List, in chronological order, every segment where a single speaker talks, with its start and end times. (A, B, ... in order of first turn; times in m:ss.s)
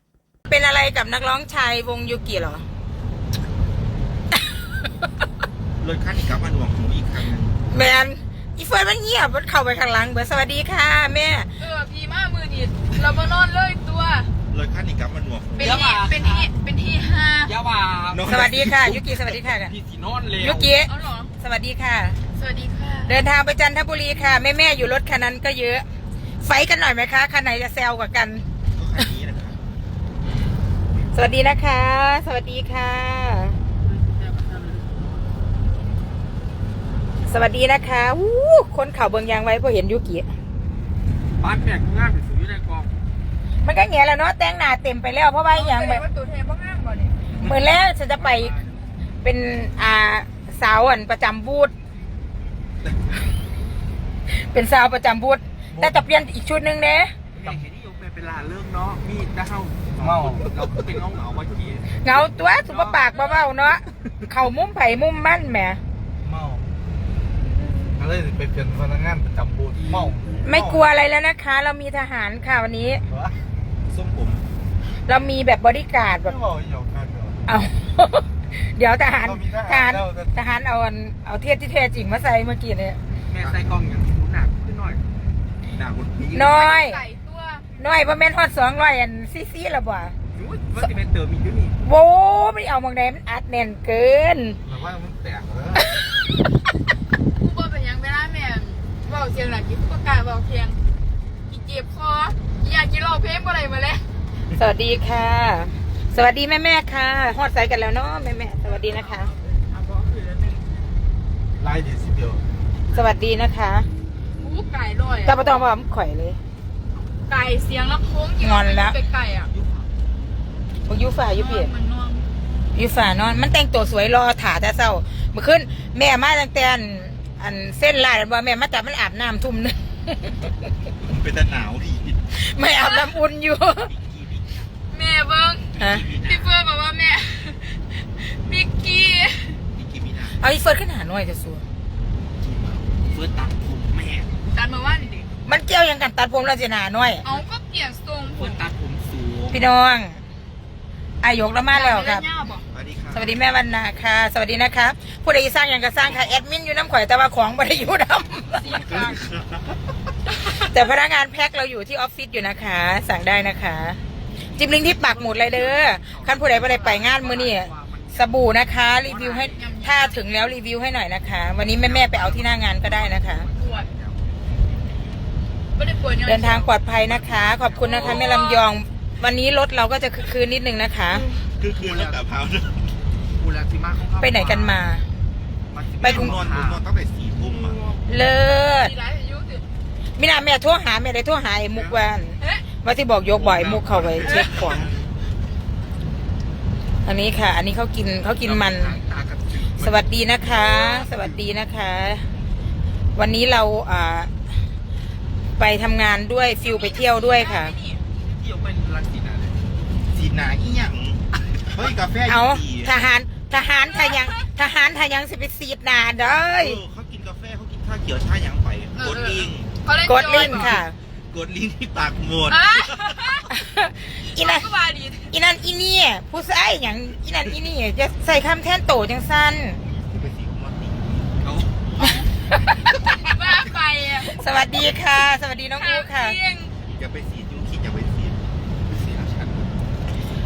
0:00.5-0:02.6 A
0:05.8-0:07.6 B
0:07.7-0:11.5 A
0:11.6-0:14.3 C
0:14.5-0:15.8 B
0:15.6-0:17.5 C
0:15.6-0:16.5 D
0:17.4-0:18.3 D
0:18.1-0:19.4 B
0:18.3-0:19.8 A
0:19.6-0:20.7 D
0:20.4-0:22.2 A
0:20.8-0:21.3 C
0:22.3-0:23.2 C
0:23.1-0:25.8 A
0:26.4-0:28.4 A
0:28.8-0:29.6 B
0:31.1-0:33.6 A
0:33.8-0:35.2 D
0:37.3-0:40.3 A
0:41.4-0:42.9 D
0:43.6-0:46.0 A
0:45.5-0:47.3 C
0:47.4-0:48.5 A
0:48.1-0:48.8 D
0:49.2-0:51.7 A
0:54.4-0:57.1 A
0:55.7-0:56.0 E
0:57.3-1:02.0 D
1:00.0-1:00.5 E
1:02.0-1:05.8 A
1:02.7-1:03.0 D
1:06.2-1:06.6 E
1:08.0-1:10.8 E
1:09.8-1:10.3 D
1:10.4-1:13.0 A
1:13.1-1:13.4 E
1:13.9-1:14.4 B
1:15.1-1:16.4 A
1:16.3-1:17.4 E
1:17.5-1:23.0 A
1:19.2-1:20.3 E
1:23.3-1:25.0 D
1:23.4-1:23.7 B
1:25.7-1:26.6 B
1:26.3-1:27.0 A
1:26.3-1:27.7 C
1:27.8-1:30.1 A
1:30.3-1:31.8 D
1:31.8-1:34.6 A
1:34.7-1:35.8 E
1:37.4-1:40.8 C
1:41.5-1:44.1 C
1:44.6-1:49.3 A
1:48.8-1:50.6 D
1:51.6-1:52.4 E
1:52.9-1:53.9 A
1:54.4-1:55.7 C
1:55.2-1:56.4 A
1:57.3-1:59.5 C
1:58.4-1:59.0 A
1:59.5-1:59.9 D
2:00.9-2:01.7 A
2:01.4-2:02.3 C
2:02.7-2:10.5 A
2:11.0-2:12.2 B
2:12.3-2:13.9 A
2:12.8-2:13.1 C
2:13.9-2:14.4 B
2:14.3-2:14.7 D
2:14.9-2:19.6 C
2:15.8-2:16.5 B
2:15.8-2:16.1 A
2:19.7-2:20.4 B
2:20.4-2:21.6 A
2:22.4-2:23.0 B
2:23.0-2:24.3 D
2:24.5-2:25.3 C
2:25.5-2:27.2 A
2:27.2-2:28.6 C
2:28.3-2:29.6 D
2:29.5-2:30.2 A
2:31.2-2:32.2 A
2:31.7-2:32.6 C
2:32.7-2:33.3 B
2:33.1-2:38.8 A
2:38.5-2:39.2 C
2:38.6-2:39.8 B
2:40.6-2:44.0 A
2:44.5-2:48.4 D
2:44.6-2:53.5 A
2:49.0-2:49.5 D
2:49.1-2:50.3 C
2:51.7-2:54.2 D
2:53.6-2:53.9 C
2:55.8-2:56.8 C
2:56.2-3:01.3 A
2:57.0-2:58.2 D
2:57.8-2:58.7 C
3:01.6-3:02.8 B
3:01.8-3:02.2 D
3:03.4-3:04.8 D
3:04.2-3:05.1 A
3:05.7-3:06.8 D
3:06.0-3:06.4 A
3:06.0-3:07.8 B
3:08.1-3:08.9 A
3:08.8-3:09.6 C
3:10.2-3:14.9 A
3:11.7-3:12.0 D
3:13.3-3:14.8 D
3:14.0-3:14.9 B
3:17.0-3:19.0 A
3:18.4-3:20.0 D
3:19.8-3:22.2 A
3:20.6-3:21.1 D
3:23.2-3:24.3 A
3:25.6-3:27.8 A
3:26.6-3:28.0 C
3:28.1-3:29.6 D
3:30.1-3:33.0 B
3:32.3-3:36.8 A
3:33.8-3:34.4 C
3:36.6-3:39.7 B
3:38.9-3:40.8 C
3:40.1-3:40.9 A
3:40.3-3:43.4 B
3:42.5-3:43.5 C
3:43.5-3:44.7 A
3:44.2-3:45.3 C
3:45.3-3:49.8 A
3:49.9-3:52.2 B
3:51.4-3:52.2 D
3:53.0-3:54.3 C
3:54.4-3:56.4 A
3:55.8-3:56.7 C
3:56.9-3:58.5 B
3:58.9-3:59.6 D
3:59.0-3:59.4 B